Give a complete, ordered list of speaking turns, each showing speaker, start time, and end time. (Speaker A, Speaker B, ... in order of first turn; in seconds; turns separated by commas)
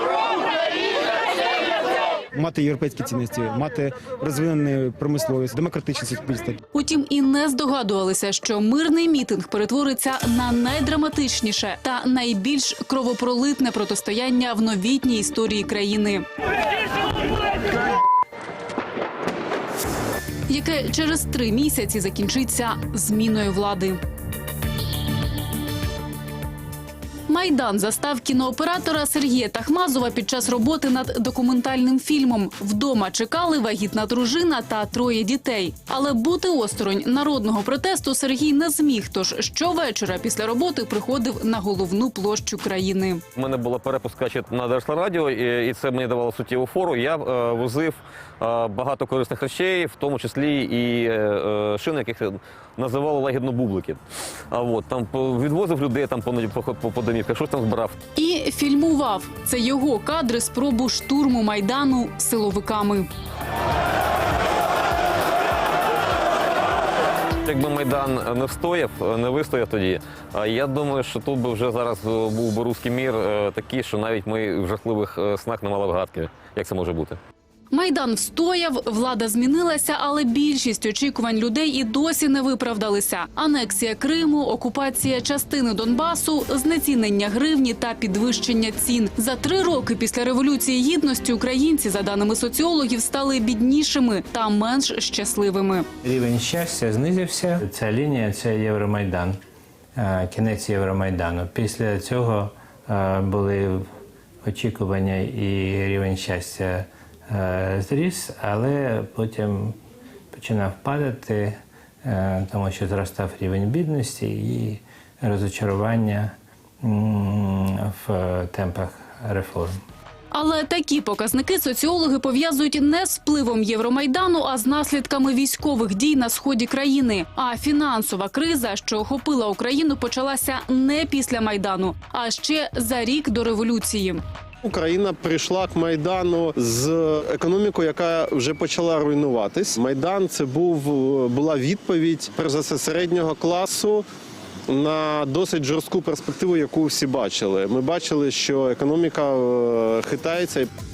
Speaker A: 2.3-6.6, Speaker B: 6.7-16.2, Speaker B: 20.5-24.0, Speaker B: 27.3-43.2, Speaker C: 43.4-58.0, Speaker B: 58.1-63.1, Speaker C: 67.4-77.2, Speaker B: 77.7-95.9, Speaker D: 96.0-99.4, Speaker D: 100.0-103.8, Speaker D: 104.4-109.8, Speaker D: 110.3-119.8, Speaker B: 120.3-134.2, Speaker E: 134.6-144.1, Speaker E: 144.7-150.7